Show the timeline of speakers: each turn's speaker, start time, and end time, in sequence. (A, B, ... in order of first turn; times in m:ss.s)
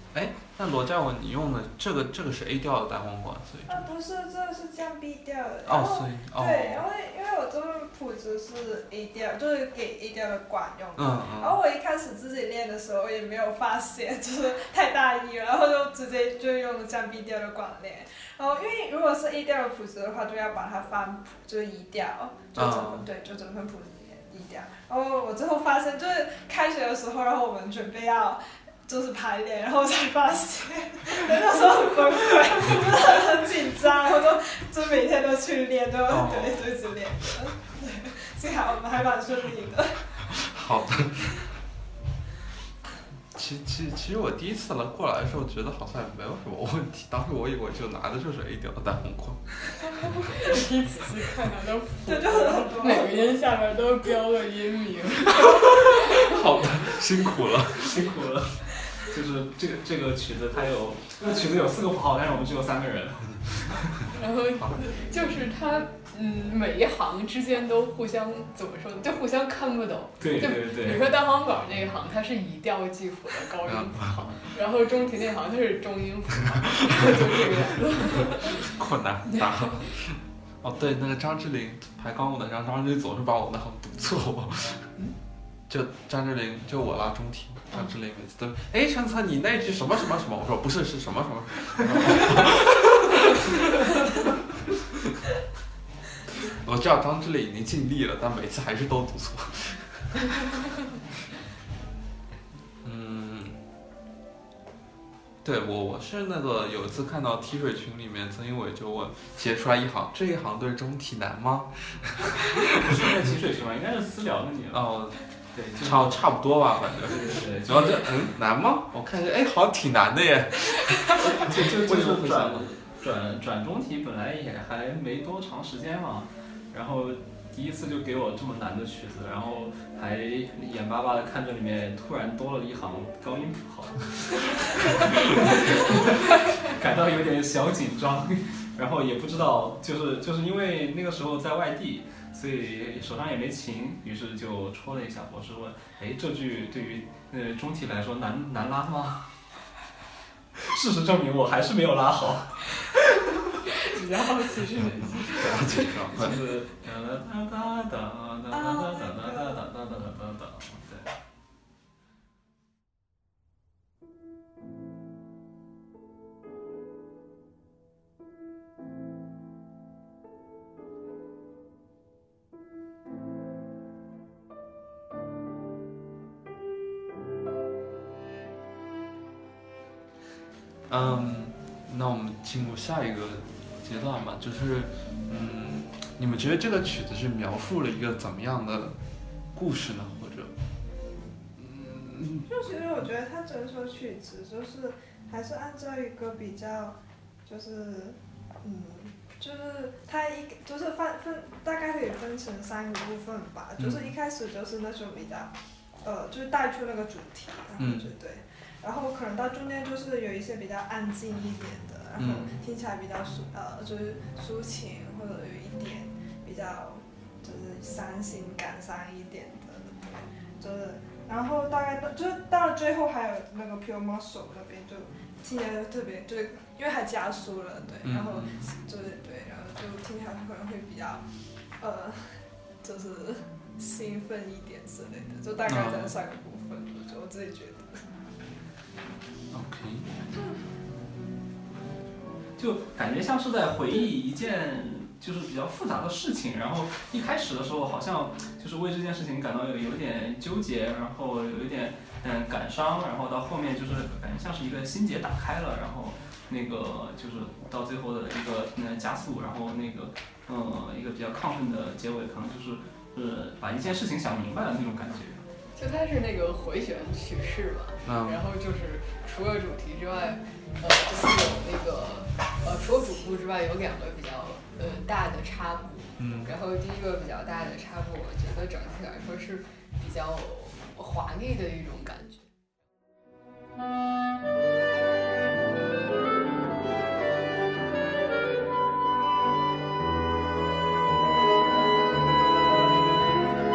0:00.1-0:03.9 A
0:03.7-0:40.4 B
0:05.7-0:06.9 A
0:11.0-0:11.6 A
0:22.6-0:23.1 A
0:36.1-0:36.8 A
0:40.3-0:41.4 A
0:43.3-0:49.5 A
0:50.2-0:56.7 C
0:52.0-0:53.3 B
0:55.6-0:58.0 A
0:57.7-1:04.0 D
1:04.1-1:18.7 C
1:04.6-1:04.8 A
1:10.2-1:11.1 D
1:13.6-1:14.3 A
1:18.2-1:24.9 A
1:19.3-1:19.9 C
1:25.7-1:34.1 A
1:36.5-1:40.4 A
1:42.8-1:43.6 A
1:45.4-1:53.1 A
1:52.7-1:54.9 D
1:54.7-1:55.2 A
1:55.5-1:56.2 D
1:55.8-2:02.7 A
1:57.0-1:58.2 D
2:01.2-2:29.4 D
2:30.6-2:33.4 D
2:33.7-2:35.9 C
2:35.3-2:36.4 A
2:36.1-2:41.1 D
2:38.5-2:39.7 B
3:00.9-3:09.0 A
3:09.5-3:10.5 A
3:11.6-3:12.5 A
3:12.5-3:51.3 B
3:23.8-3:24.1 A
3:27.8-3:28.1 A
3:32.2-3:32.5 A
3:48.0-3:48.6 A
3:51.8-3:58.0 B
3:55.7-3:56.2 A
3:59.5-4:00.1 A
4:02.6-4:25.4 D
4:25.8-4:42.5 C
4:28.0-4:28.4 A
4:36.2-4:36.5 A